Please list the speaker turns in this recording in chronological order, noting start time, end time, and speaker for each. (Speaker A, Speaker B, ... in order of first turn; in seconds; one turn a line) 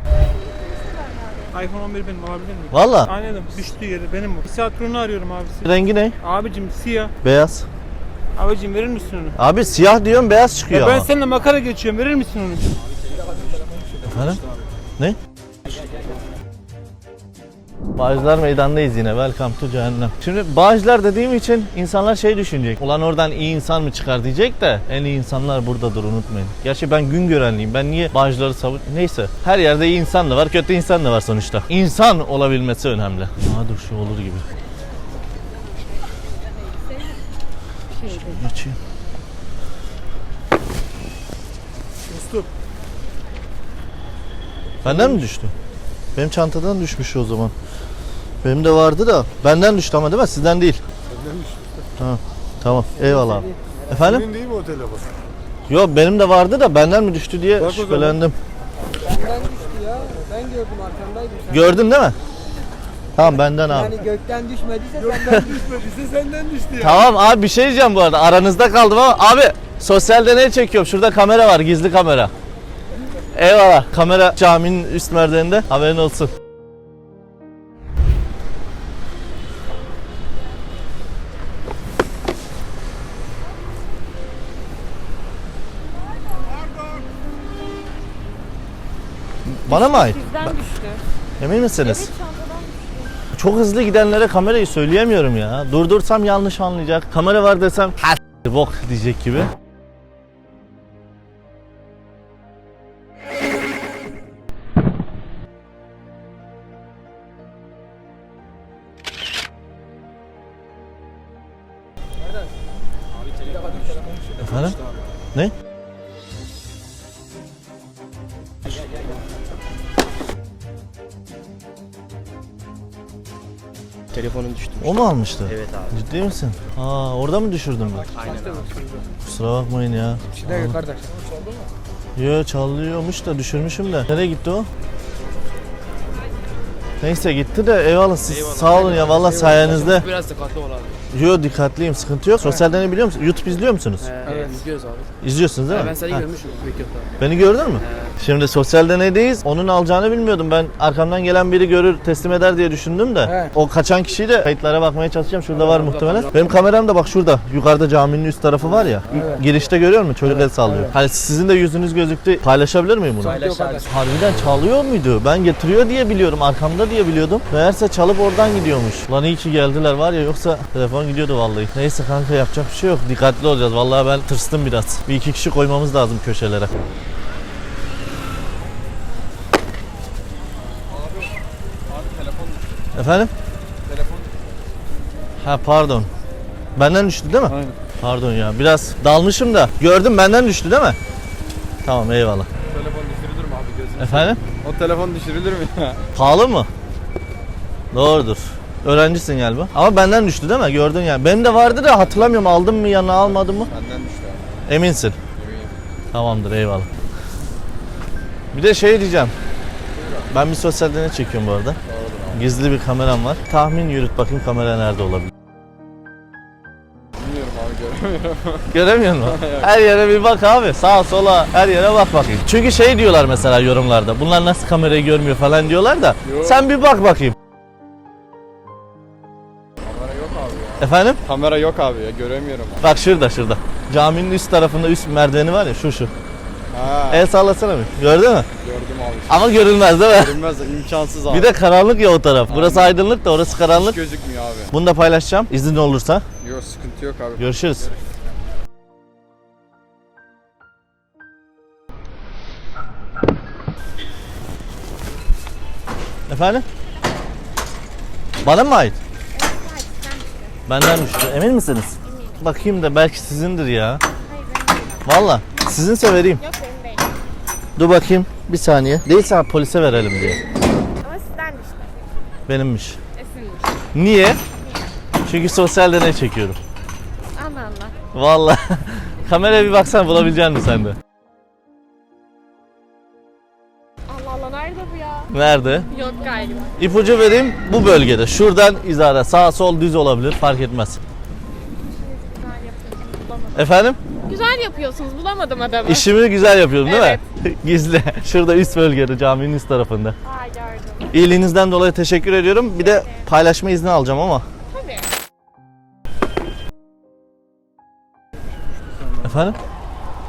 Speaker A: 0.6-1.5
Speaker B: 1.5-5.7
Speaker C: 2.7-3.1
Speaker C: 5.6-6.2
Speaker B: 6.2-7.1
Speaker C: 7.2-7.7
Speaker B: 8.3-9.3
Speaker C: 9.3-11.1
Speaker B: 10.7-12.7
Speaker C: 14.0-14.4
Speaker C: 17.9-34.5
Speaker A: 38.0-38.4
Speaker C: 38.0-38.8
Speaker C: 44.8-45.5
Speaker C: 46.1-47.5
Speaker C: 48.4-50.8
Speaker D: 51.1-51.6
Speaker C: 52.0-54.3
Speaker E: 53.0-53.5
Speaker D: 54.1-55.0
Speaker C: 55.7-58.4
Speaker E: 59.0-61.6
Speaker C: 61.5-62.1
Speaker C: 63.1-63.9
Speaker E: 63.7-66.3
Speaker C: 65.2-65.6
Speaker D: 65.6-66.8
Speaker C: 66.8-72.3
Speaker C: 73.3-76.3
Speaker C: 89.4-90.6
Speaker A: 89.7-91.0
Speaker C: 91.4-92.1
Speaker A: 91.8-93.1
Speaker C: 93.3-99.5
Speaker C: 114.3-114.8
Speaker F: 124.2-124.9
Speaker C: 124.8-128.1
Speaker F: 125.5-125.9
Speaker F: 128.2-128.6
Speaker C: 129.2-130.8
Speaker E: 130.6-131.0
Speaker C: 132.2-134.7
Speaker C: 137.0-140.1
Speaker F: 138.3-141.0
Speaker C: 141.1-144.1
Speaker F: 144.0-145.1
Speaker E: 144.2-144.6
Speaker C: 145.2-146.2
Speaker F: 145.7-147.1
Speaker C: 147.2-176.7
Speaker F: 147.8-148.1
Speaker F: 155.8-156.3
Speaker E: 163.3-163.8
Speaker F: 163.4-163.9
Speaker G: 180.9-181.3
Speaker G: 181.9-182.8
Speaker C: 182.9-183.3
Speaker G: 183.8-184.3
Speaker C: 185.4-186.1
Speaker C: 186.8-191.0
Speaker G: 187.4-187.8
Speaker C: 191.8-192.5
Speaker G: 192.7-196.0
Speaker C: 194.0-194.4
Speaker C: 196.1-196.7
Speaker C: 197.9-203.7
Speaker G: 203.2-204.4
Speaker C: 204.7-205.2
Speaker G: 205.3-205.8
Speaker C: 206.1-206.9
Speaker C: 208.5-209.3
Speaker G: 209.9-210.3
Speaker C: 210.3-211.8
Speaker G: 211.9-212.5
Speaker C: 212.3-215.3
Speaker G: 217.2-219.7
Speaker C: 218.7-227.3
Speaker G: 226.2-226.7
Speaker G: 229.8-232.9
Speaker C: 230.8-231.2
Speaker C: 232.8-236.1
Speaker G: 236.7-237.3
Speaker C: 237.1-238.5
Speaker G: 238.6-239.5
Speaker C: 239.3-240.4
Speaker G: 240.0-241.5
Speaker C: 241.3-244.0
Speaker G: 242.5-242.9
Speaker G: 243.6-244.7
Speaker C: 244.7-246.2
Speaker G: 246.4-248.1
Speaker C: 247.4-247.9
Speaker C: 256.3-256.6
Speaker C: 258.4-259.0
Speaker A: 259.3-260.5
Speaker C: 260.7-264.0
Speaker A: 262.1-262.5
Speaker A: 264.3-265.0
Speaker C: 265.0-266.4
Speaker A: 266.4-267.1
Speaker C: 267.8-270.4
Speaker A: 271.0-271.9
Speaker C: 272.5-273.0
Speaker A: 273.2-273.7
Speaker C: 273.9-274.4
Speaker C: 275.3-276.6
Speaker A: 277.3-278.0
Speaker C: 278.1-280.9
Speaker A: 284.1-285.3
Speaker C: 285.3-285.9
Speaker A: 285.9-286.8
Speaker C: 286.8-291.0
Speaker A: 291.9-293.7
Speaker C: 293.5-294.0
Speaker A: 294.2-296.1
Speaker C: 295.8-300.1
Speaker A: 296.8-297.2
Speaker A: 300.2-301.1
Speaker C: 301.1-304.4
Speaker A: 302.8-303.2
Speaker A: 304.7-305.0
Speaker C: 309.2-309.6